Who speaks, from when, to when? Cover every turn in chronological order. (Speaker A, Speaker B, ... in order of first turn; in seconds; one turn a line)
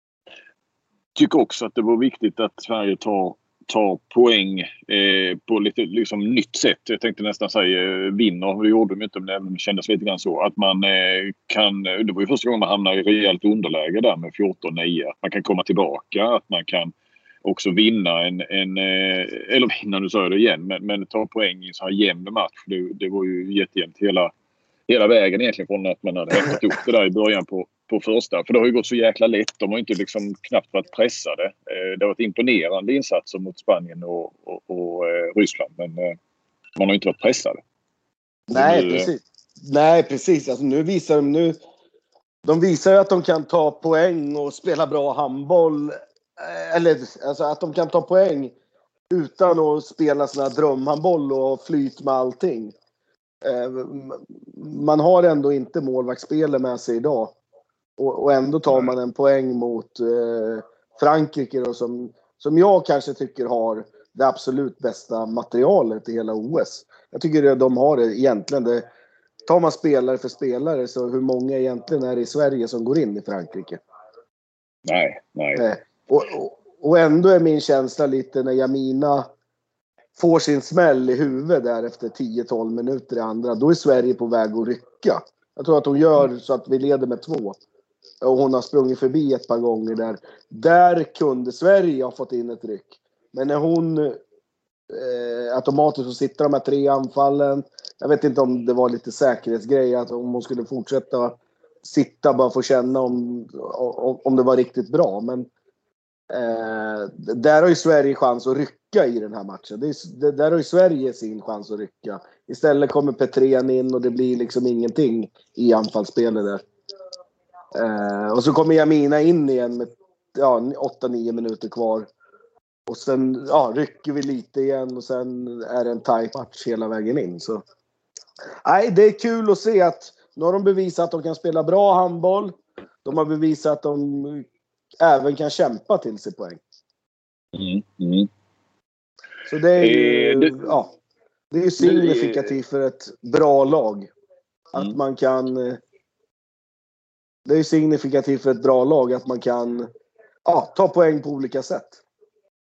Speaker A: 1.1-16.9
Speaker A: 17.4-24.3
Speaker A: 24.9-36.1
Speaker A: 36.8-37.6
Speaker B: 38.5-41.6
Speaker A: 38.5-39.1
Speaker B: 42.4-48.5
Speaker B: 49.1-52.7
Speaker B: 53.4-57.4
Speaker B: 58.0-68.8
Speaker B: 69.5-73.8
Speaker A: 74.8-75.6
Speaker B: 75.5-79.3
Speaker B: 80.2-87.6
Speaker B: 88.2-94.2
Speaker B: 94.9-105.5
Speaker B: 106.3-116.6
Speaker B: 117.7-122.1
Speaker B: 122.9-127.6
Speaker B: 128.6-134.4
Speaker B: 135.0-136.6
Speaker A: 137.5-138.3
Speaker B: 139.5-140.9
Speaker A: 139.8-140.6
Speaker B: 141.5-144.1
Speaker A: 141.8-142.5
Speaker B: 144.7-145.8
Speaker B: 147.4-149.9
Speaker B: 150.4-152.0